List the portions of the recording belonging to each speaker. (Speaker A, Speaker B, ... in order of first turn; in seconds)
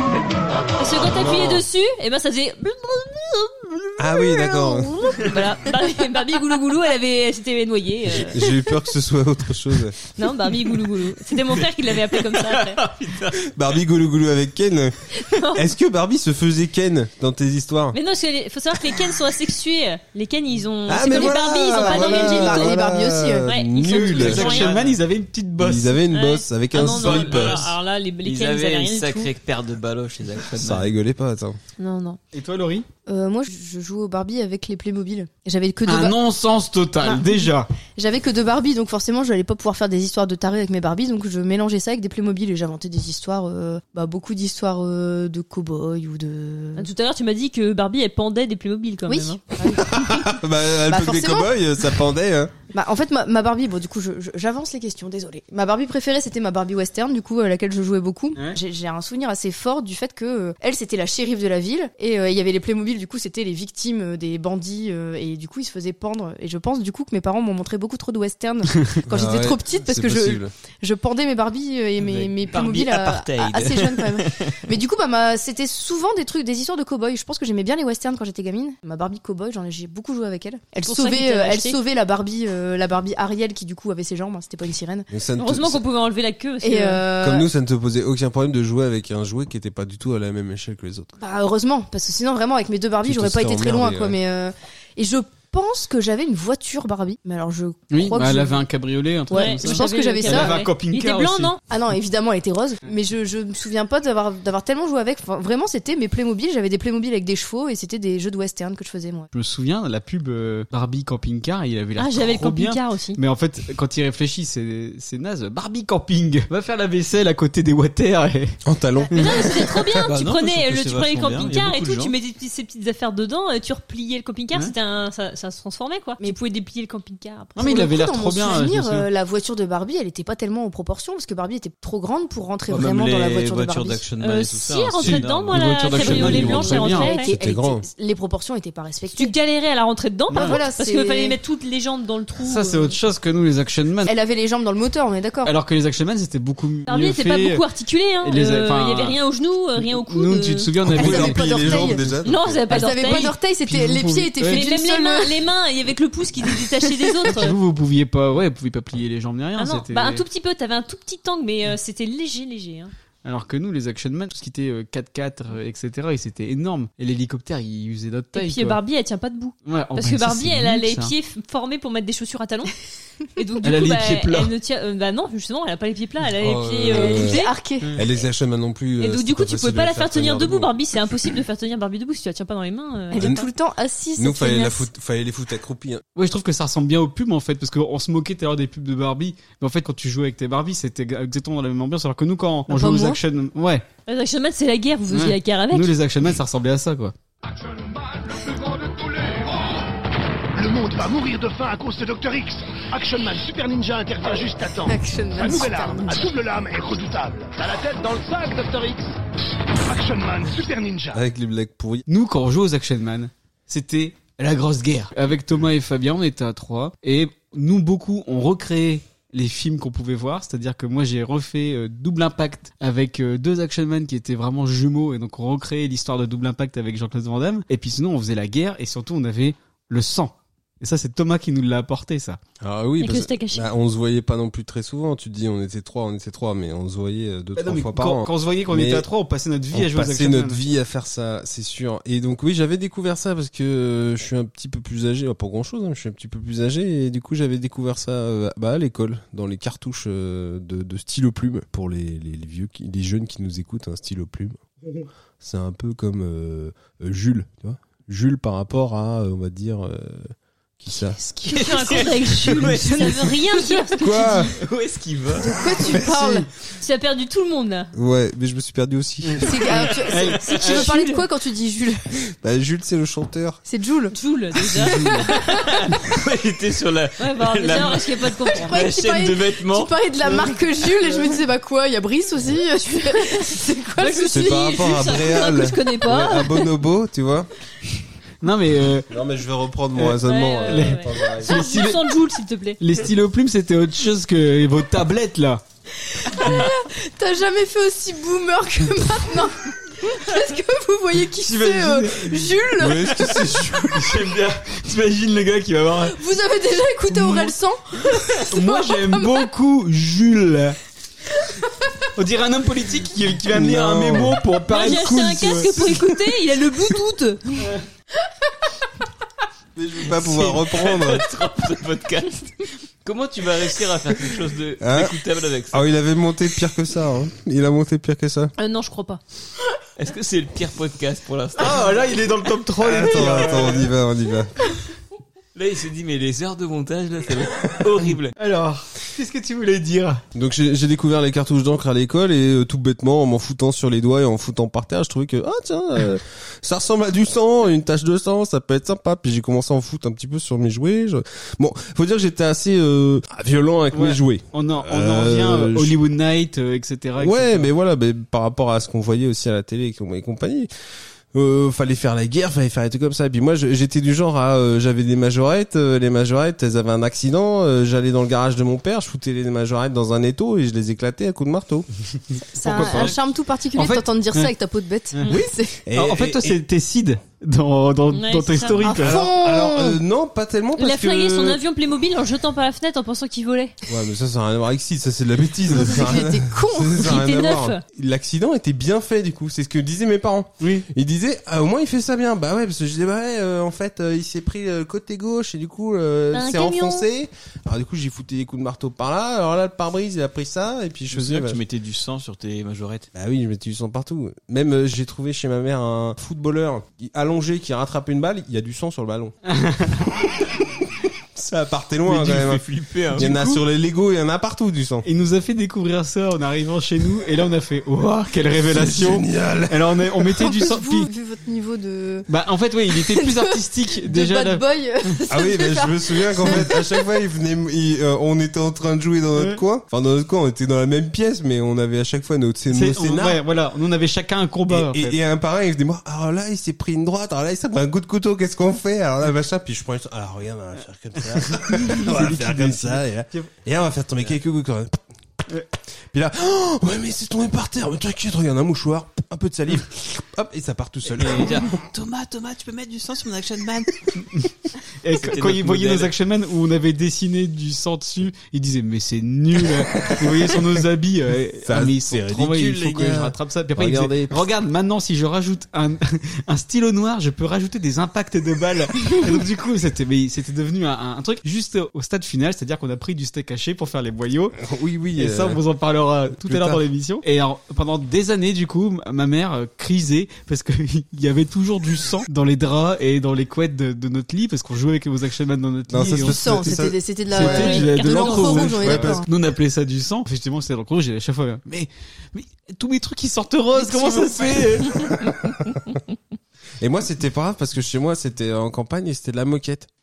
Speaker A: 0.8-8.4, 10.2-12.8, 15.1-15.6, 17.9-22.7, 23.4-24.8, 26.1-29.3, 31.8-32.2, 46.8-49.9, 80.8-81.8, 85.4-87.0, 99.3-101.6, 112.0-113.2, 119.1-127.7, 134.2-137.3, 139.1-143.0, 146.9-150.7, 152.2-153.3, 154.5-157.6, 159.6-162.9, 168.3-172.7, 173.3-177.5, 179.0-183.5, 194.1-195.9, 233.0-233.7, 261.5-264.5, 266.8-267.9, 270.5-271.2, 274.1-275.7, 277.2-278.8, 282.9-283.4, 284.0-286.7, 290.2-292.8, 314.7-317.7, 328.6-329.2, 378.1-378.8, 380.8-383.8, 387.0-387.8, 396.3-397.1, 487.4-488.7
Speaker B: 1.0-1.6, 4.0-5.0, 8.1-10.0, 13.5-15.0, 15.5-18.0, 20.9-24.7, 25.6-27.6, 30.5-31.6, 49.8-52.5, 69.1-70.5, 85.1-85.8, 87.2-91.1, 93.0-94.2, 118.7-119.6, 137.1-137.8, 150.8-152.6, 176.4-177.4, 177.9-180.7, 183.2-183.4, 184.2-186.0, 211.1-212.0, 232.6-239.1, 239.7-254.6, 255.4-261.2, 264.0-264.5, 265.9-266.4, 267.9-269.5, 272.4-273.6, 284.3-287.5, 289.1-291.6, 302.8-304.2, 313.5-314.4, 319.8-321.2, 324.8-328.5, 332.8-334.5, 340.3-356.0, 357.2-360.7, 361.3-371.9, 372.7-373.1, 375.9-376.6, 379.0-381.6, 383.9-401.6, 403.1-409.4, 411.3-415.1, 418.7-420.2, 425.3-433.4, 434.7-445.0, 446.1-451.7, 461.6-464.4, 474.6-475.6, 476.4-476.8, 485.9-489.2, 496.8-499.9
Speaker C: 12.4-13.4, 24.4-24.9, 26.8-30.9, 72.0-74.6, 120.0-122.1, 132.7-136.5, 261.6-263.2, 264.6-265.6, 275.6-279.9, 320.2-325.9, 330.0-331.9, 333.0-333.9, 335.5-338.3, 372.8-373.1, 401.1-403.1, 412.1-413.5, 451.1-454.3, 455.2-456.1
Speaker D: 21.1-23.6, 33.1-36.2, 37.0-46.9, 49.1-49.8, 50.9-51.5, 52.7-85.1, 86.6-87.5, 91.2-98.7, 99.3-100.6, 101.7-109.3, 127.6-134.0, 136.8-139.3, 140.3-141.4, 144.0-145.5, 150.9-152.0, 152.7-155.4, 176.9-177.9, 183.1-184.9, 192.7-193.2, 204.8-206.3, 265.4-266.5, 269.4-272.0, 273.6-274.1, 274.7-275.3, 278.4-285.2, 296.0-303.7, 306.1-309.5, 372.5-375.8, 378.8-380.0, 385.7-387.2, 420.4-422.3, 422.9-427.0, 486.2-489.2, 493.9-494.8
Speaker E: 23.8-26.0, 32.3-32.9, 35.9-37.7, 97.9-101.6, 109.3-118.6, 127.6-129.1, 135.0-137.1, 140.3-140.6, 142.4-144.1, 145.4-147.6, 148.2-149.2, 149.8-152.0, 152.9-154.7, 157.3-160.2, 163.2-168.8, 169.6-171.1, 173.6-174.5, 186.2-193.8, 195.1-197.1, 212.1-232.4, 237.6-240.6, 261.1-261.7, 269.2-270.9, 274.9-275.2, 288.4-289.1, 289.9-292.1, 292.8-295.6, 301.4-302.5, 303.9-306.2, 307.1-307.5, 308.5-310.8, 312.1-316.1, 331.6-333.8, 338.4-340.2, 353.9-357.7, 372.6-373.2, 373.7-374.5, 375.1-379.2, 390.6-390.9, 409.5-410.1, 413.2-413.5, 415.0-421.1, 422.3-424.6, 432.7-435.2, 441.3-443.5, 455.0-474.5, 475.1-486.6, 487.3-495.1
Speaker F: 197.4-199.8, 200.6-209.2, 209.8-211.2